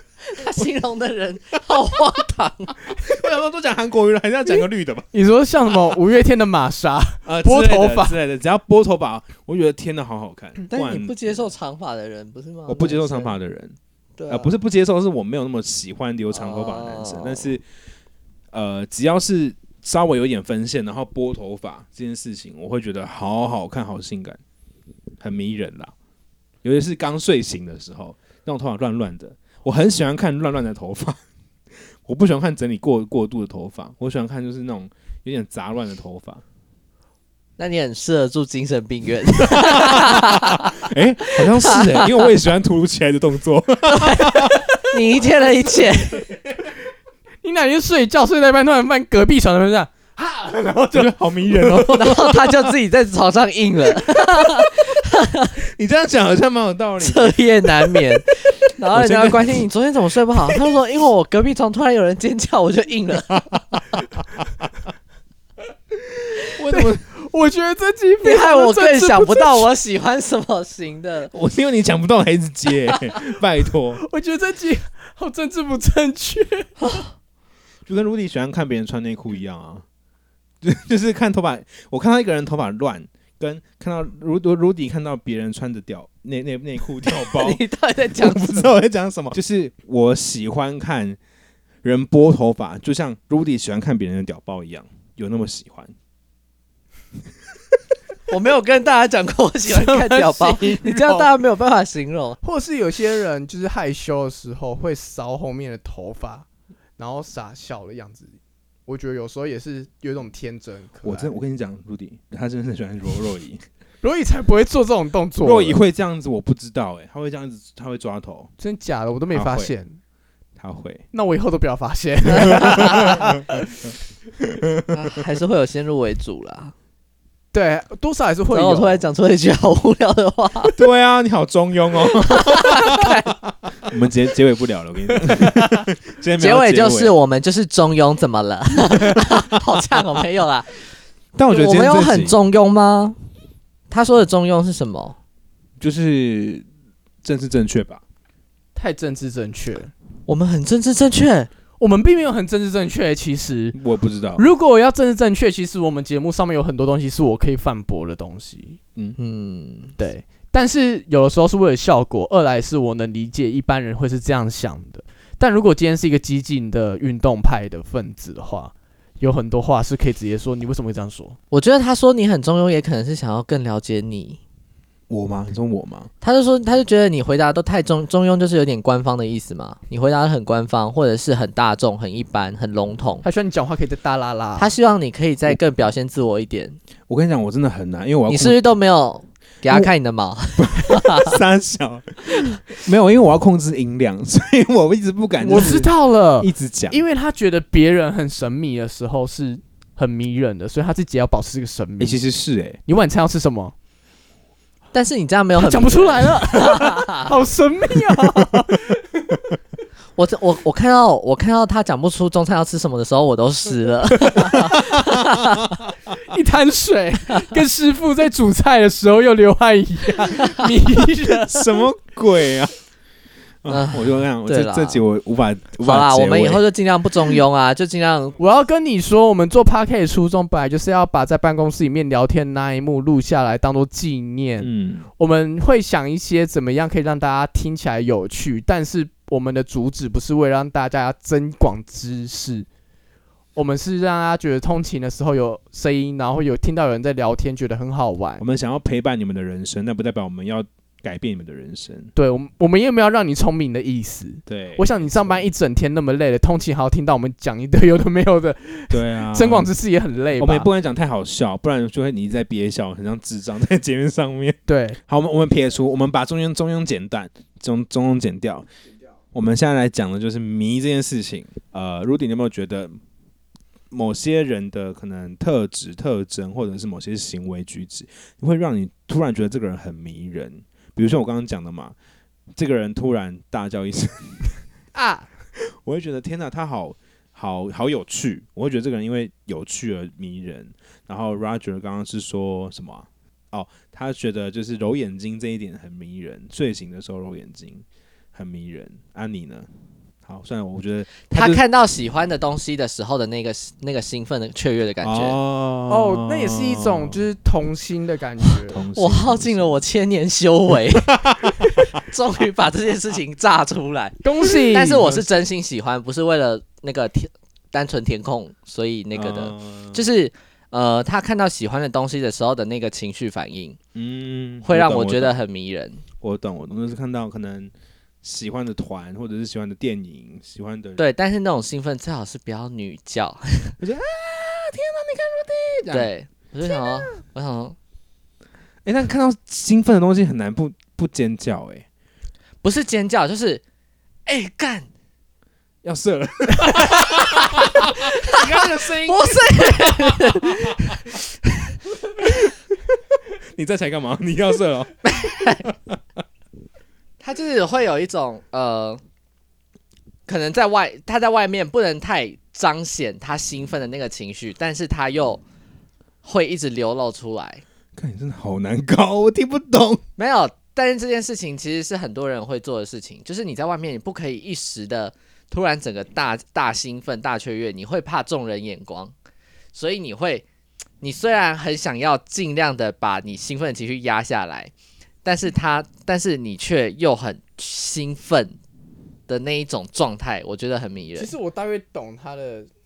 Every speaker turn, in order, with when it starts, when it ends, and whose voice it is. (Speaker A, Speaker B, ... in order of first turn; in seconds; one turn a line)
Speaker A: 0.3-2.8
Speaker B: 2.9-5.1
Speaker C: 5.1-8.2
Speaker B: 7.2-11.5
Speaker A: 10.6-13.3
Speaker B: 12.7-13.8
Speaker A: 14.2-14.5
Speaker B: 14.3-17.6
Speaker A: 16.3-17.6
Speaker B: 18.5-24.4
Speaker B: 25.2-25.9
Speaker B: 26.6-31.2
Speaker B: 32.0-36.4
Speaker A: 37.6-40.9
Speaker B: 39.4-44.7
Speaker A: 41.4-42.2
Speaker A: 43.9-46.3
Speaker C: 47.4-52.1
Speaker B: 50.9-52.5
Speaker A: 51.9-55.5
Speaker B: 55.6-58.0
Speaker A: 57.0-63.5
Speaker B: 58.9-59.6
Speaker B: 63.3-64.7
Speaker B: 66.4-67.0
Speaker C: 66.4-69.7
Speaker A: 68.2-71.3
Speaker B: 71.3-74.0
Speaker C: 74.0-76.9
Speaker B: 77.9-79.8
Speaker B: 80.6-87.6
Speaker A: 87.1-88.7
Speaker B: 88.2-91.2
Speaker B: 91.8-95.9
Speaker A: 98.3-102.4
Speaker C: 99.7-101.3
Speaker C: 102.4-106.5
Speaker C: 107.0-108.3
Speaker C: 108.9-111.4
Speaker B: 111.0-113.6
Speaker C: 114.0-115.8
Speaker B: 115.4-118.5
Speaker C: 118.6-120.0
Speaker B: 119.3-119.7
Speaker B: 120.6-121.0
Speaker C: 121.1-123.7
Speaker A: 122.4-123.1
Speaker B: 122.5-123.4
Speaker B: 124.4-124.9
Speaker A: 124.9-126.7
Speaker C: 127.5-129.0
Speaker A: 128.5-130.7
Speaker B: 130.7-133.1
Speaker A: 132.3-133.3
Speaker B: 133.8-137.1
Speaker A: 136.4-140.7
Speaker B: 139.1-139.4
Speaker B: 141.3-142.4
Speaker A: 141.5-143.2
Speaker A: 143.9-145.2
Speaker B: 145.8-146.6
Speaker B: 147.2-148.0
Speaker C: 148.7-149.9
Speaker A: 150.3-151.5
Speaker C: 151.8-153.8
Speaker B: 153.7-154.4
Speaker C: 154.4-158.8
Speaker A: 159.2-159.9
Speaker C: 160.0-171.4
Speaker A: 171.5-174.4
Speaker B: 175.1-176.1
Speaker A: 176.2-183.2
Speaker C: 183.2-184.7
Speaker A: 184.6-186.8
Speaker B: 187.1-188.6
Speaker A: 188.3-191.4
Speaker B: 190.6-197.0
Speaker C: 195.4-202.2
Speaker B: 202.0-202.8
Speaker C: 202.8-203.7
Speaker A: 204.9-207.3
Speaker C: 205.6-209.3
Speaker A: 210.2-215.7
Speaker C: 214.2-214.6
Speaker B: 214.4-215.3
Speaker C: 216.1-221.8
Speaker B: 221.2-222.7
Speaker B: 223.6-226.6
Speaker A: 223.7-225.0
Speaker A: 225.8-228.4
Speaker C: 228.4-242.7
Speaker B: 234.6-235.1
Speaker C: 243.5-248.4
Speaker B: 248.4-252.1
Speaker C: 252.2-260.7
Speaker B: 254.5-255.4
Speaker B: 258.9-259.7
Speaker B: 260.4-268.7
Speaker C: 264.7-265.0
Speaker B: 269.3-273.0
Speaker B: 273.9-281.9
Speaker B: 282.6-284.5
Speaker C: 284.9-285.3
Speaker B: 285.6-299.7
Speaker B: 300.2-301.6
Speaker A: 301.3-305.4
Speaker B: 305.0-307.2
Speaker C: 305.9-308.8
Speaker B: 308.7-309.8
Speaker A: 308.9-311.2
Speaker B: 311.1-311.8
Speaker A: 311.9-323.8
Speaker C: 314.2-315.3
Speaker B: 319.1-320.0
Speaker B: 323.9-325.4
Speaker A: 324.6-326.0
Speaker B: 326.2-327.7
Speaker B: 328.2-331.0
Speaker A: 331.0-333.8
Speaker B: 333.8-336.1
Speaker A: 335.9-337.8
Speaker B: 338.8-341.9
Speaker A: 342.6-343.6
Speaker A: 344.2-344.9
Speaker B: 345.8-350.9
Speaker A: 346.7-351.7
Speaker B: 352.2-352.5
Speaker B: 353.5-355.9
Speaker A: 355.0-355.6
Speaker A: 357.2-359.0
Speaker A: 360.3-365.4
Speaker A: 366.2-367.6
Speaker B: 367.9-370.0
Speaker A: 370.2-379.1
Speaker A: 379.7-380.4
Speaker A: 381.0-384.7
Speaker A: 385.2-388.5
Speaker A: 389.3-391.3
Speaker C: 391.1-392.7